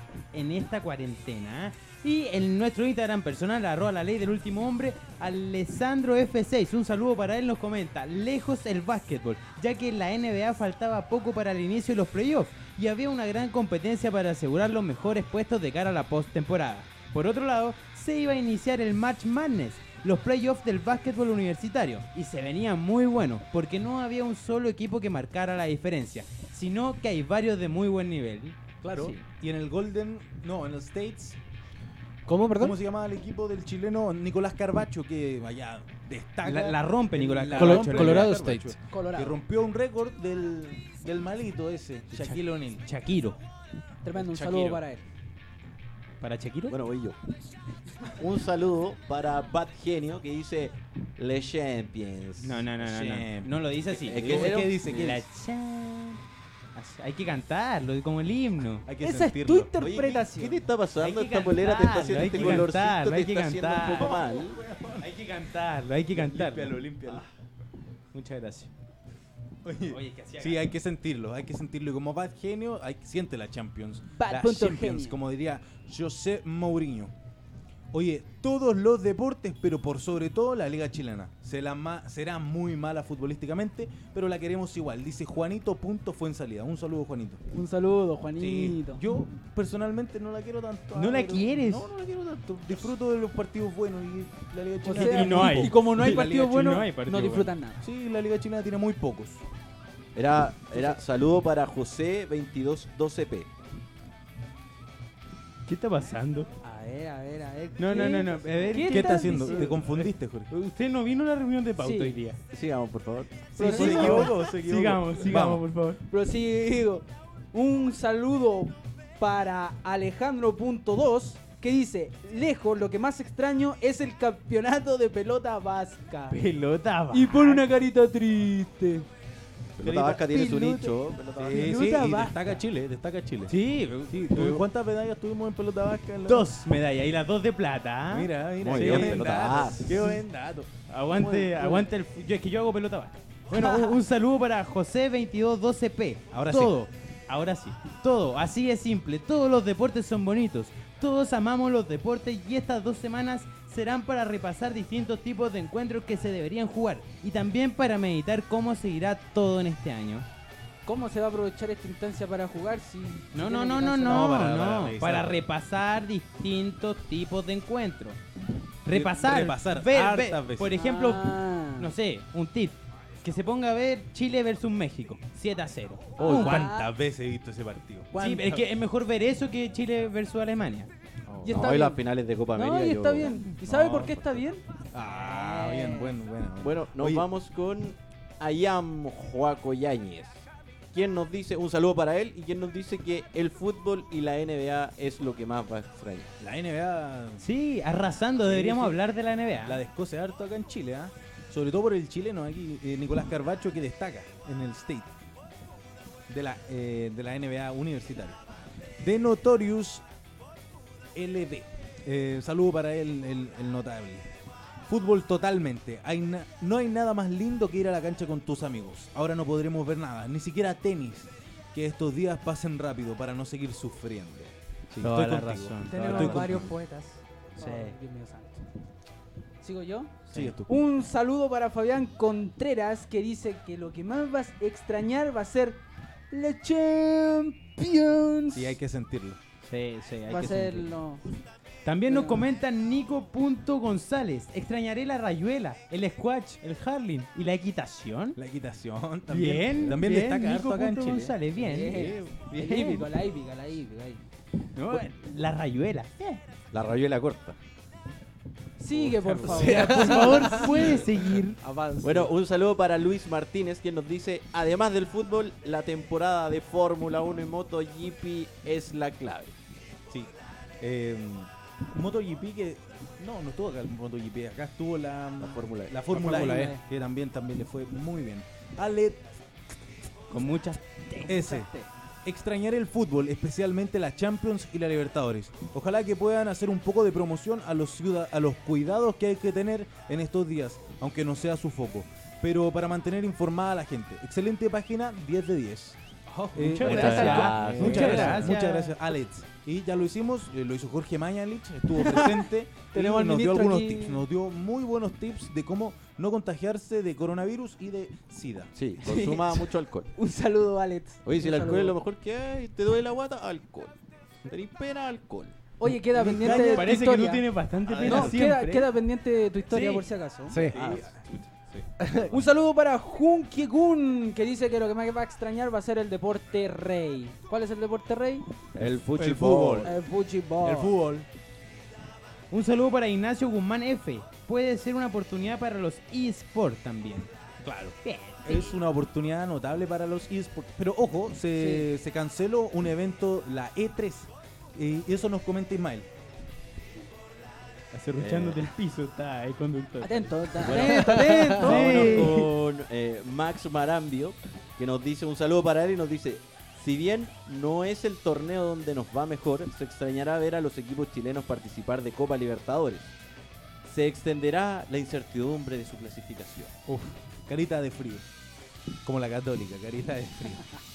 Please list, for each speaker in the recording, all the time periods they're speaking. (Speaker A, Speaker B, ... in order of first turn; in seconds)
Speaker A: 0.3-28.6, 36.4-38.4, 42.1-43.4, 46.2-46.8, 52.4-56.2, 56.7-58.9, 61.0-64.2, 65.0-67.2, 68.1-68.7, 69.9-70.7, 90.9-91.9, 94.9-97.5, 105.7-106.5, 107.8-112.4, 113.6-116.0, 126.3-127.7, 133.5-134.6, 136.3-139.8, 140.9-160.3, 163.3-168.2, 168.8-176.7, 178.1-180.9, 197.4-199.8, 224.9-226.7, 227.6-227.9, 239.6-240.9, 241.8-248.4, 249.3-253.1, 254.7-256.4, 259.4-261.6, 280.3-281.3, 296.3-298.9, 316.3-318.9, 319.7-320.1, 332.5-337.3, 338.0-338.7, 347.9-352.5
Speaker B: 28.8-31.4, 32.6-42.8, 44.2-44.8, 52.8-53.5, 54.1-55.2, 58.9-59.7, 62.2-62.7, 64.0-65.1, 66.1-67.2, 69.6-77.1, 77.9-87.4, 88.4-96.4, 97.8-99.4, 108.8-110.5, 113.5-115.6, 129.8-130.7, 131.3-133.5, 134.1-136.5, 138.1-140.7, 146.3-146.7, 164.0-165.4, 168.9-170.8, 176.2-178.7, 181.3-181.7, 183.6-184.2, 184.9-187.3, 196.4-197.4, 198.4-199.0, 199.6-205.1, 206.3-208.4, 209.0-210.0, 211.1-214.3, 214.9-226.7, 230.3-230.7, 238.5-239.4, 248.3-251.4, 259.0-259.8, 270.1-279.3, 281.3-281.7, 282.2-296.0, 296.5-308.7, 316.1-317.0, 320.7-321.2, 328.8-329.9, 330.6-331.3, 337.6-346.1, 366.9-368.2, 369.0-370.6
Speaker C: 28.9-29.2, 38.9-39.4, 44.0-45.0, 59.0-60.6, 74.1-75.2, 87.5-89.0, 94.8-97.8, 106.6-109.7, 111.8-112.2, 113.6-114.3, 116.1-126.4, 127.1-129.1, 131.5-132.6, 143.6-143.9, 160.8-164.3, 170.7-171.9, 176.2-176.9, 181.4-182.0, 182.5-186.2, 225.9-228.6, 229.6-238.8, 240.3-241.2, 242.1-242.4, 251.6-254.2, 258.8-261.2, 276.1-276.8, 281.2-281.9, 296.9-297.5, 298.0-298.3, 301.9-304.2, 309.0-311.9, 315.8-317.4, 318.0-320.7, 322.2-328.5, 329.8-330.9, 341.5-341.9, 350.0-352.5
Speaker D: 32.2-32.8, 37.5-38.8, 259.5-260.6, 261.6-262.3, 297.5-298.4, 320.5-320.8
Speaker E: 46.7-47.2, 48.2-52.7, 53.9-54.8, 59.8-64.6, 100.2-103.5, 112.5-114.3, 129.8-131.9, 138.6-140.0, 181.4-184.2, 186.6-196.3, 251.9-252.3, 256.7-257.6, 262.0-269.6, 275.4-276.3, 296.8-298.4, 308.7-310.1, 311.2-315.5, 317.9-318.3, 320.7-321.3, 328.7-330.0, 348.2-348.7, 350.6-363.1, 363.8-366.8